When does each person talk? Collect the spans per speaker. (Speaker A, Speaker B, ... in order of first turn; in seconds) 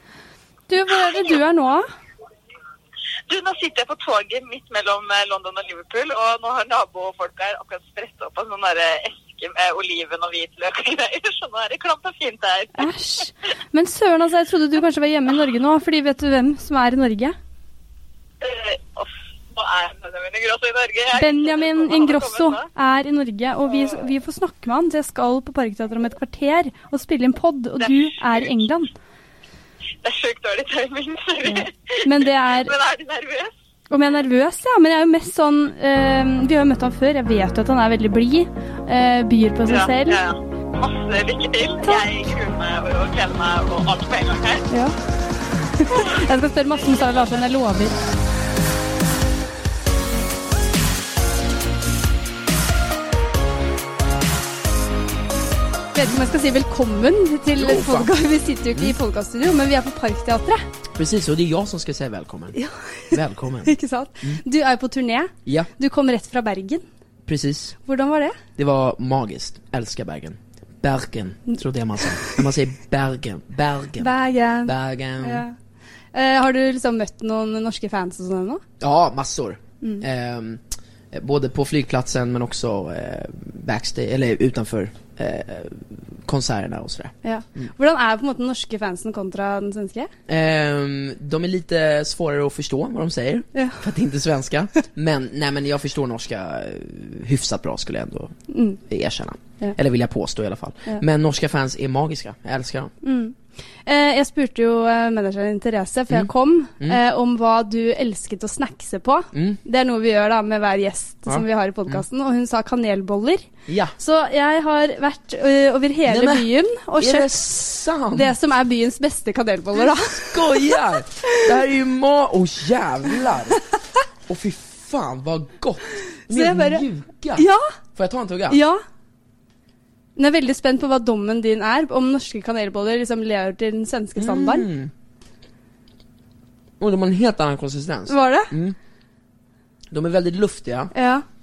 Speaker A: 0.7-1.9, 12.8-17.4, 21.1-28.9, 31.4-32.8, 33.9-40.2, 45.8-48.0, 55.9-60.6, 62.5-66.8, 67.8-68.4, 74.0-75.5, 76.1-78.6, 87.2-90.1, 93.5-93.8, 98.5-98.8, 103.0-113.5, 114.0-117.4, 118.1-121.5, 126.3-127.7, 128.5-128.8, 130.2-134.7, 138.1-138.5, 140.9-141.2
Speaker B: 3.3-12.9, 18.4-22.7, 30.0-33.5, 39.7-44.7
Speaker C: 57.5-58.1, 61.0-62.6, 63.1-64.4, 67.3-67.8, 68.6-74.1, 74.7-75.5, 78.8-87.7, 90.3-102.9, 106.1-107.0, 109.3-109.6, 111.3-112.0, 113.7-114.0, 116.1-118.3, 119.9-123.6, 124.3-128.6, 134.2-134.9, 136.8-138.8, 139.9-140.9